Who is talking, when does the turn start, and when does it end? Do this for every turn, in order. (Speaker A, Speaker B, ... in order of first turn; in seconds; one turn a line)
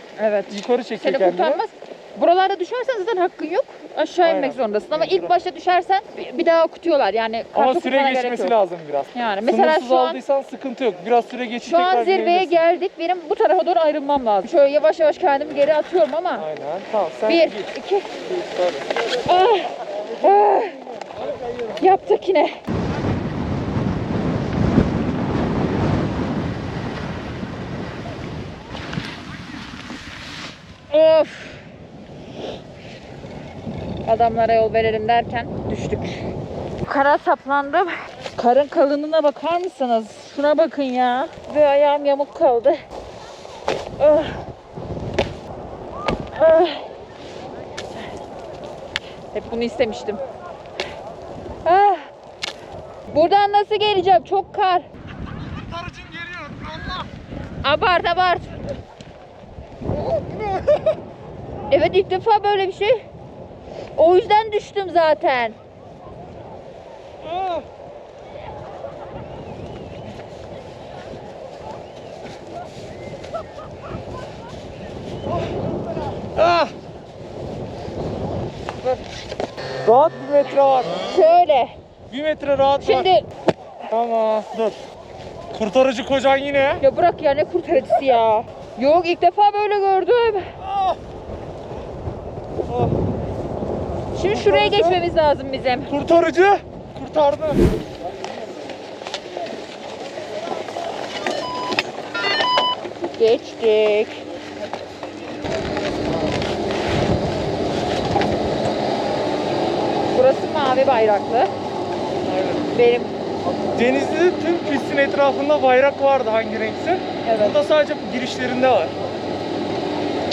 Speaker A: 0.2-8.6
Speaker B: 0.5-1.6
Speaker B: 4.2-5.3
Speaker B: 7.5-12.6
Speaker A: 9.1-10.2
Speaker A: 11.6-16.4
Speaker B: 16.4-18.9
Speaker A: 17.3-18.1
Speaker A: 19.2-20.8
Speaker A: 21.8-22.6
Speaker A: 30.9-31.6
Speaker A: 34.0-36.3
Speaker A: 36.8-42.8
Speaker A: 44.0-44.4
Speaker A: 46.3-46.9
Speaker A: 49.3-50.2
Speaker A: 51.6-52.1
Speaker A: 53.1-54.9
Speaker B: 55.7-57.0
Speaker A: 57.6-58.6
Speaker A: 61.7-63.0
Speaker A: 64.0-65.6
Speaker B: 67.2-67.6
Speaker B: 76.3-76.7
Speaker B: 79.8-80.9
Speaker A: 81.1-81.7
Speaker B: 82.1-83.1
Speaker A: 82.8-83.2
Speaker B: 83.9-84.8
Speaker B: 85.5-86.8
Speaker A: 86.8-90.5
Speaker B: 90.6-91.0
Speaker B: 92.7-92.9
Speaker A: 94.1-95.9
Speaker B: 94.3-95.0
Speaker B: 95.9-97.6
Speaker A: 103.2-104.2
Speaker A: 110.1-111.5
Speaker B: 112.2-112.6
Speaker A: 112.7-113.1
Speaker B: 113.7-118.9
Speaker A: 117.2-117.6